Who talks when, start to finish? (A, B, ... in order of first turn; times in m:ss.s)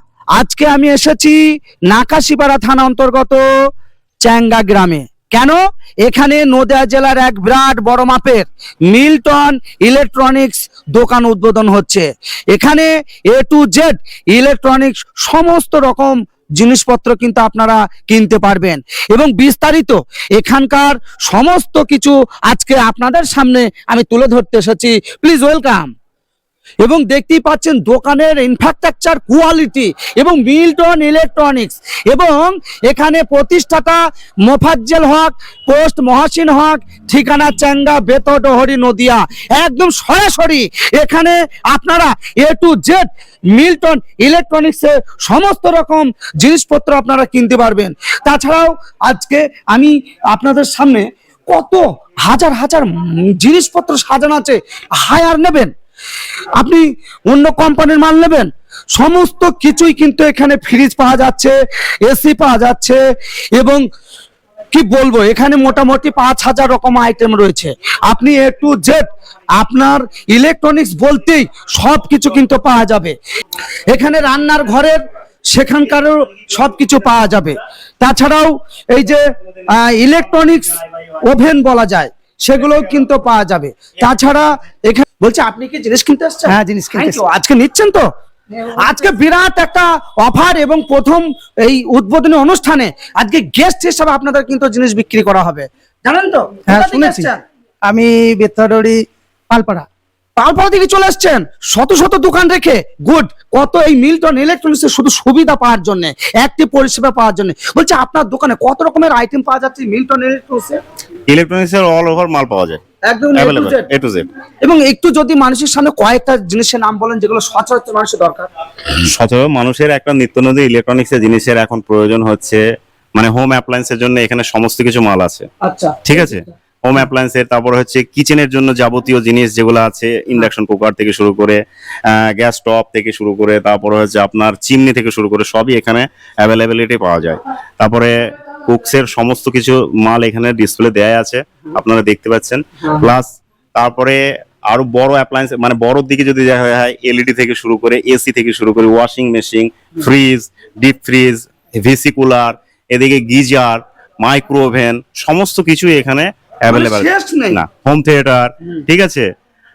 0:00.3-0:03.4 A
0:04.2-0:25.9 A
0:26.8-0:55.7 A
0:56.6-1:03.0 A
1:03.5-1:03.8 A
1:04.7-1:09.0 A
1:09.6-1:13.1 A
1:13.9-1:28.0 A
1:26.5-1:27.2 B
1:28.7-1:37.4 A
1:36.7-1:37.3 B
1:37.8-1:39.8 B
1:40.4-1:50.8 A
1:51.3-1:52.8 C
1:53.1-1:53.9 A
1:53.4-1:54.3 C
1:54.6-1:58.5 A
1:58.9-2:02.6 C
2:03.2-2:05.4 C
2:05.6-2:06.5 A
2:06.0-2:18.1 C
2:18.7-2:39.3 C
2:36.7-2:37.6 A